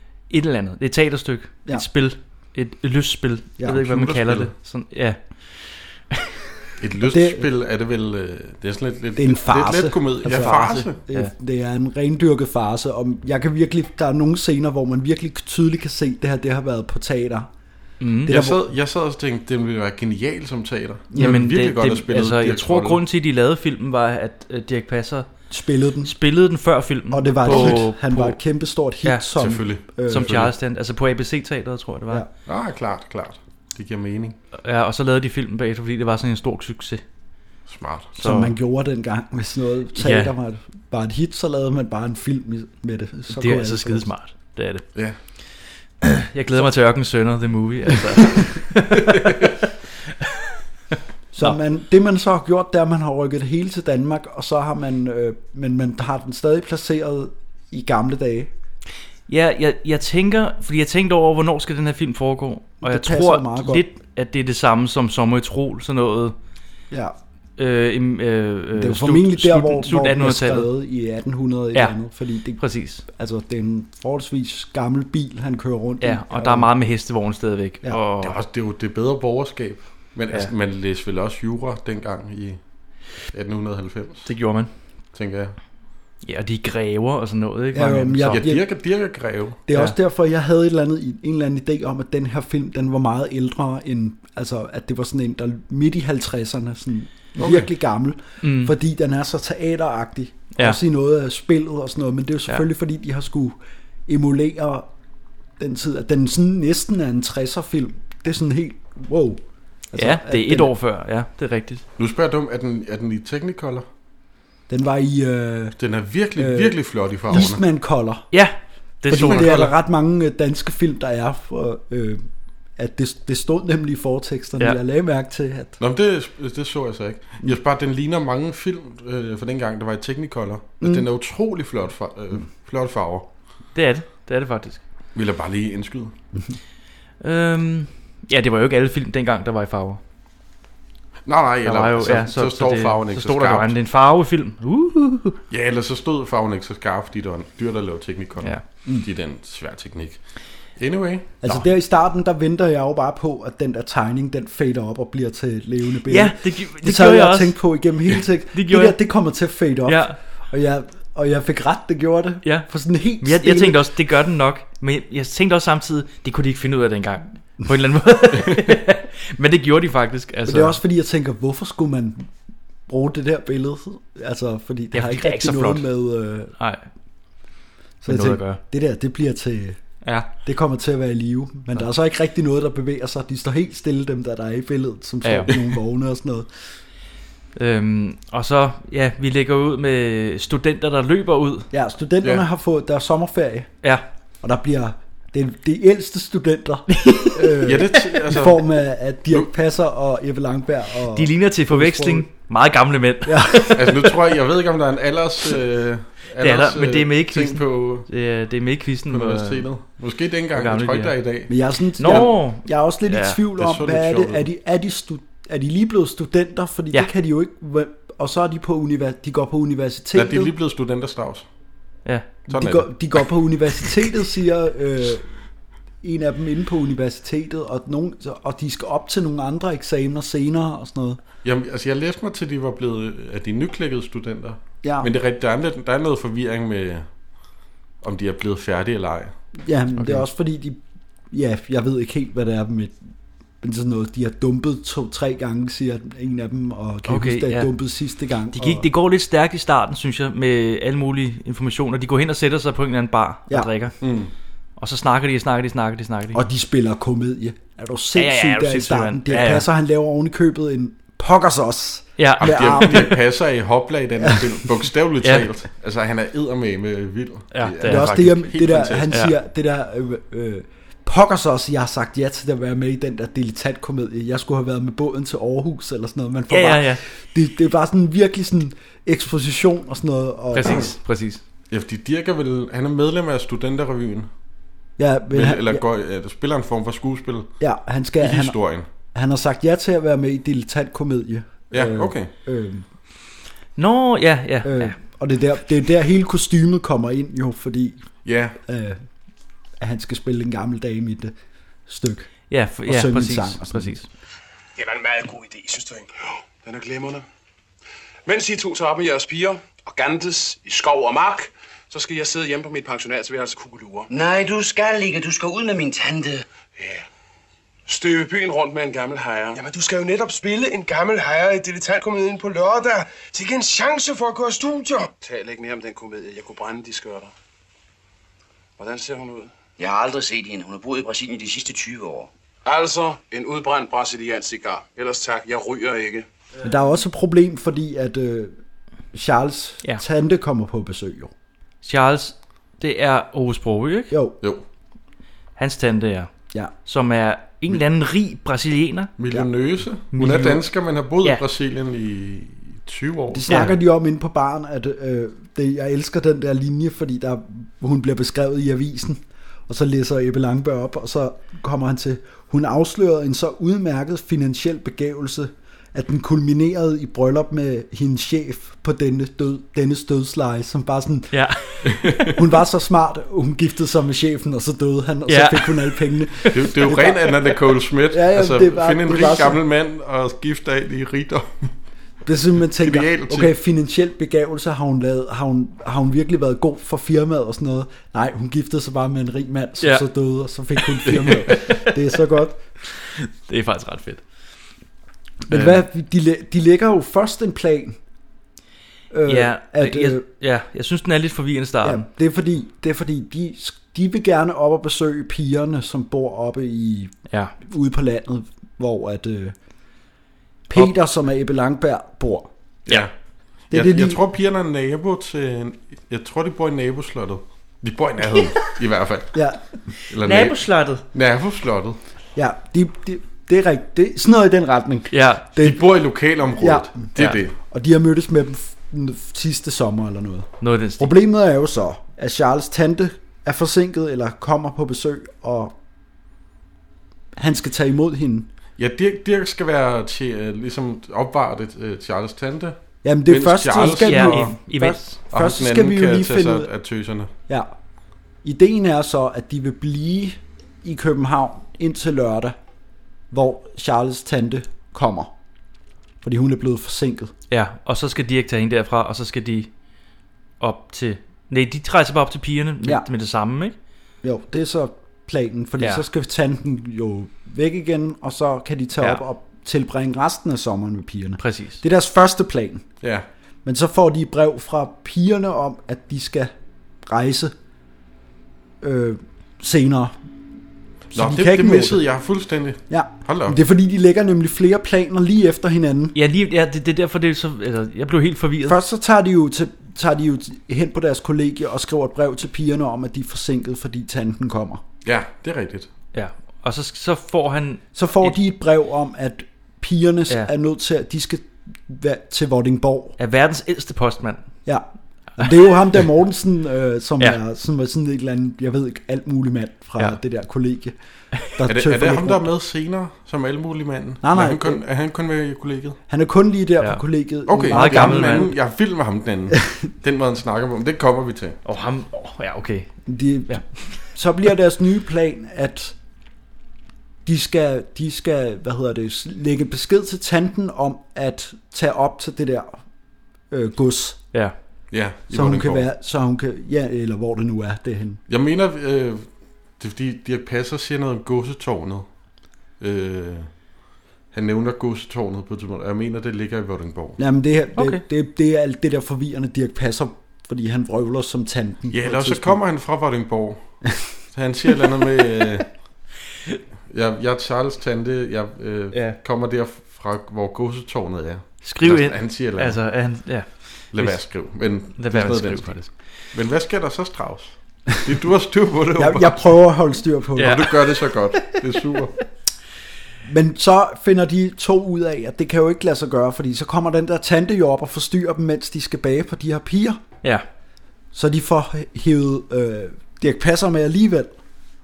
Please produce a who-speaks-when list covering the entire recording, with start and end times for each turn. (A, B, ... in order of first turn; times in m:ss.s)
0:00.3-0:06.1 A
0:03.7-0:04.5 B
0:06.8-0:11.0 B
0:07.0-0:07.5 C
0:09.2-0:17.5 C
0:10.3-0:11.3 A
0:18.0-0:18.3 A
0:18.2-0:18.6 C
0:18.3-0:23.0 B
0:21.1-0:21.4 C
0:21.2-0:25.3 A
0:25.5-0:26.2 C
0:26.0-0:28.4 A
0:27.1-0:30.5 C
0:27.5-0:27.8 B
0:29.0-0:29.3 A
0:29.4-0:30.5 B
0:30.1-0:32.2 A
0:32.5-0:34.4 B
0:34.6-0:37.0 A
0:37.7-0:38.1 B
0:38.2-0:38.5 A
0:38.2-0:44.1 C
0:40.0-0:40.3 A
0:43.3-0:44.8 A
0:46.0-0:49.5 A
0:51.3-0:58.5 C
0:59.3-1:06.4 A
1:02.8-1:03.8 C
1:06.9-1:07.2 C
1:07.6-1:10.7 A
1:08.8-1:16.7 C
1:12.6-1:13.0 A
1:16.0-1:18.4 A
1:18.2-1:22.6 B
1:23.3-1:24.3 B
1:24.2-1:24.7 A
1:25.1-1:25.6 B
1:26.2-1:28.4 A
1:27.7-1:28.6 C
1:28.3-1:29.6 B
1:29.7-1:44.9 C
1:37.4-1:37.7 B
1:38.4-1:38.7 A
1:45.6-1:49.4 C
1:49.9-1:50.7 C
1:50.0-1:51.8 A
1:52.0-1:53.8 B
1:54.7-1:55.8 C
1:55.8-1:57.6 B
1:56.4-1:56.8 C
1:57.3-1:58.3 C
1:58.3-1:59.7 A
1:59.1-2:02.2 C
1:59.2-1:59.6 B
2:02.8-2:05.8 C
2:05.8-2:13.3 B
2:13.8-2:14.8 A
2:15.2-2:16.1 B
2:17.2-2:20.0 A
2:21.3-2:23.7 B
2:21.6-2:25.4 A
2:25.5-2:30.2 B
2:30.8-2:31.6 B
2:31.4-2:43.9 C
2:36.1-2:37.6 A
2:38.5-2:39.0 A
2:39.9-2:40.2 A
2:43.2-2:50.8 A
2:50.5-2:52.3 C
2:52.9-2:56.6 C
2:54.9-2:55.9 A
2:56.6-2:56.8 A
2:58.0-2:59.8 C
2:58.1-2:58.6 A
3:00.0-3:00.3 A
3:00.4-3:06.5 C
3:05.2-3:05.5 A
3:07.6-3:11.7 A
3:11.7-3:13.7 C
3:14.4-3:22.3 C
3:16.9-3:17.5 A
3:17.6-3:18.8 B
3:21.1-3:24.0 A
3:23.3-3:23.9 C
3:23.8-3:28.1 B
3:26.4-3:29.7 A
3:29.1-3:32.3 B
3:30.6-3:31.1 A
3:31.5-3:40.5 C
3:32.0-3:33.4 A
3:33.6-3:34.4 B
3:40.2-3:41.5 B
3:42.0-3:42.3 A
3:42.5-3:43.0 B
3:42.5-3:45.3 C
3:46.0-3:51.2 C
3:51.4-3:57.1 B
3:54.8-3:55.1 C
3:58.0-3:59.3 B
3:59.6-4:00.8 C
4:01.3-4:03.0 C
4:03.6-4:08.9 C
4:07.1-4:07.7 A
4:08.5-4:14.0 A
4:14.0-4:14.3 B
4:14.8-4:16.4 A
4:16.3-4:23.2 C
4:18.2-4:19.7 A
4:22.2-4:22.9 A
4:22.4-4:29.2 B
4:27.5-4:28.2 A
4:27.8-4:40.9 C
4:36.5-4:37.0 A
4:40.5-4:41.4 A
4:40.6-4:40.9 B
4:41.7-4:44.3 B
4:45.0-4:45.8 C
4:45.3-4:47.5 B
4:47.6-4:52.9 C
4:48.2-4:48.9 B
4:51.7-4:52.3 B
4:53.8-4:55.0 A
4:54.6-4:58.0 C
4:58.2-4:58.6 B
4:58.6-4:59.0 C
4:59.8-5:01.3 C
5:01.9-5:02.3 C
5:02.5-5:04.1 A
5:02.8-5:04.0 C
5:04.8-5:06.1 D
5:06.6-5:07.2 E
5:08.3-5:14.1 E
5:14.1-5:16.5 F
5:16.8-5:17.0 E
5:17.9-5:19.6 E
5:19.5-5:25.1 D
5:25.2-5:27.3 E
5:28.8-5:29.5 E
5:29.8-5:32.3 F
5:32.6-5:36.3 E
5:36.6-5:38.6 C
5:39.1-5:41.3 C
5:41.8-5:44.1 A
5:44.1-5:44.4 C
5:45.6-5:46.3 A
5:46.8-5:49.1 A
5:49.2-5:53.6 B
5:50.1-5:50.6 A
5:53.3-6:17.5 C
5:53.5-5:53.8 A
6:11.3-6:12.3 A
6:15.3-6:16.6 A
6:16.5-6:21.7 B
6:18.1-6:19.6 C
6:22.2-6:32.6 C
6:22.8-6:23.5 B
6:29.8-6:30.1 A
6:30.8-6:31.9 A
6:32.9-6:34.2 A
6:35.5-6:38.0 C
6:35.5-6:35.8 A
6:39.1-6:40.2 C
6:39.3-6:42.1 A
6:41.8-6:49.6 C
6:50.7-6:52.5 C
6:53.7-6:59.4 B
6:53.7-6:54.2 C
6:59.3-6:59.6 C
7:00.0-7:02.0 B
7:00.2-7:01.0 A
7:02.4-7:05.9 C
7:05.1-7:05.5 A
7:05.6-7:07.6 B
7:06.6-7:07.0 C
7:07.7-7:15.7 C
7:10.6-7:11.1 A
7:17.4-7:18.5 C
7:18.8-7:24.6 B
7:23.0-7:26.7 C
7:23.8-7:25.2 A
7:25.3-7:27.3 B
7:27.5-7:27.7 C
7:28.4-7:32.6 C
7:33.3-7:35.3 C
7:36.2-7:37.3 C
7:37.5-7:39.7 A
7:40.6-7:43.8 A
7:44.2-7:52.8 C
7:51.4-7:51.8 A
7:53.6-7:56.5 C
7:57.0-7:57.5 C
7:58.8-8:00.2 C
8:01.1-8:03.6 B
8:01.1-8:02.0 C
8:02.9-8:06.2 C
8:06.2-8:08.8 A
8:08.6-8:14.8 C
8:15.0-8:15.9 B
8:16.1-8:18.4 A
8:17.9-8:23.2 C
8:23.2-8:24.5 A
8:25.4-8:31.0 C
8:31.5-8:32.5 C
8:31.7-8:36.0 B
8:34.2-8:34.8 C
8:36.1-8:38.6 C
8:37.5-8:41.6 B
8:37.7-8:38.5 A
8:41.7-8:43.0 A
8:43.1-8:46.0 C
8:47.2-8:52.8 C
8:53.5-8:54.2 C
8:54.9-8:55.9 B
8:55.3-8:58.2 C
8:58.3-8:59.3 B
8:59.8-9:02.1 B
9:02.8-9:03.5 B
9:04.3-9:07.2 B
9:07.2-9:12.6 C
9:07.8-9:08.0 A
9:11.9-9:13.8 B
9:14.3-9:15.7 B
9:16.9-9:22.8 B
9:18.9-9:19.2 A
9:21.6-9:24.2 A
9:23.9-9:29.5 B
9:25.0-9:25.9 A
9:29.0-9:30.7 C
9:30.4-9:30.6 A
9:30.4-9:32.2 B
9:33.2-9:40.0 C
9:41.1-9:44.4 C